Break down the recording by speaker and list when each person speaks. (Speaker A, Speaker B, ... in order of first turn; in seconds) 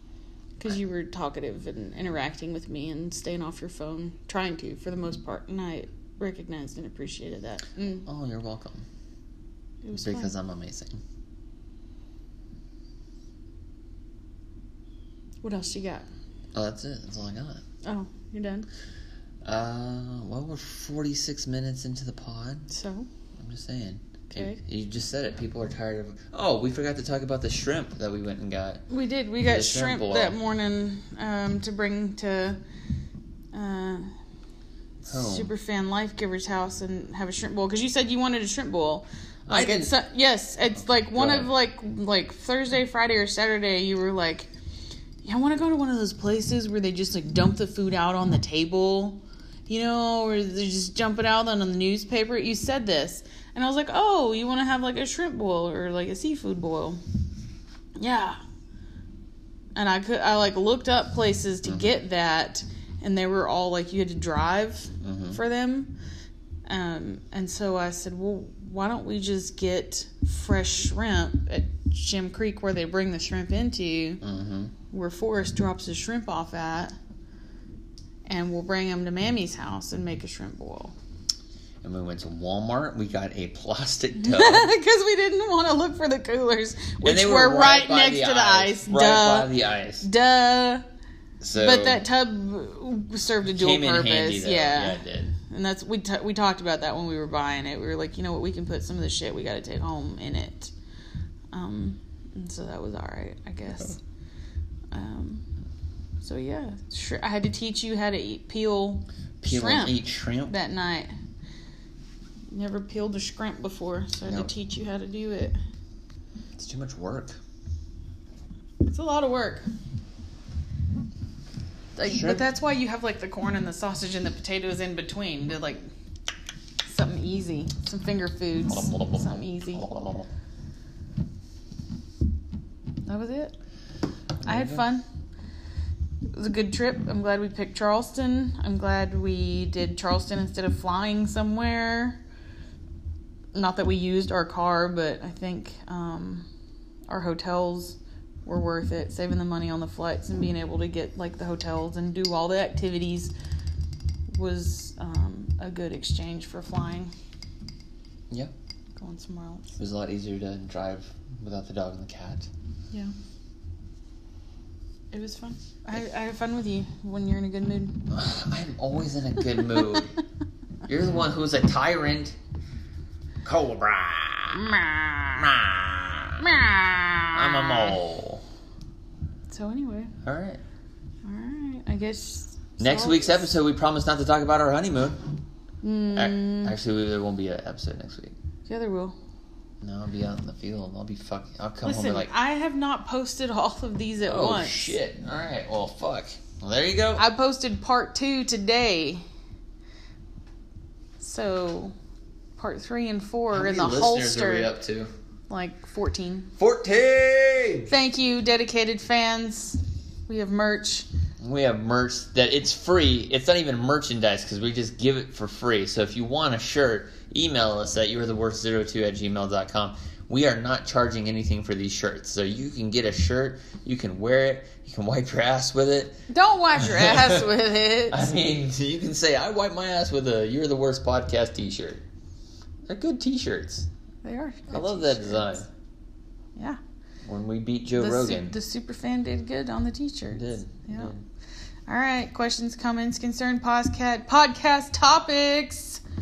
Speaker A: 0.6-8.1, 9.8-10.3, 15.4-16.1, 17.8-18.7, 22.7-23.1, 24.3-24.6, 28.9-32.6, 33.5-34.1, 35.1-44.5, 45.2-57.0, 58.0-58.4, 59.8-65.9, 66.7-74.2, 74.9-77.0, 78.2-81.0, 84.2-89.5, 90.0-90.8, 91.5-100.7, 101.5-104.0, 104.9-105.4, 106.2-111.1, 112.5-115.6, 118.9-119.7, 122.0-125.9, 126.8-129.8, 133.1-133.5, 134.4-135.0, 136.3-142.2, 143.5-146.5, 147.1-153.3, 154.3-157.1, 159.0-159.7, 165.1-168.0, 169.6-170.0, 174.5-175.5, 176.4-177.9, 179.5-180.1, 181.2-183.5, 185.8-186.7, 188.7-189.2, 191.8-194.9, 197.2-199.2, 201.2-201.9, 202.6-204.7, 205.5-206.5, 207.9-211.1, 226.3-228.3, 234.2-235.6, 238.0-241.1, 241.9-246.0
Speaker B: 8.1-8.8, 9.9-11.0, 16.5-17.6, 19.4-22.7, 23.4-28.8, 29.4-30.4, 35.0-35.5, 39.5-39.9, 40.8-41.5, 61.6-61.9, 65.0-65.4, 74.2-74.7, 81.8-84.7, 87.0-90.1, 91.4-92.0, 93.5-95.3, 109.4-110.5, 114.2-114.5, 116.6-117.4, 122.0-122.5, 128.7-130.3, 134.4-134.8, 159.8-162.5, 168.1-170.2, 170.9-172.3, 173.4-176.6, 177.3-178.4, 180.2-180.6, 182.8-185.4, 186.1-188.3, 189.8-192.3, 194.2-197.2, 203.5-205.1, 206.6-207.9, 211.4-226.2, 226.7-227.4, 228.1-232.0, 232.9-233.9, 234.7-235.7, 237.2-238.5, 240.3-241.2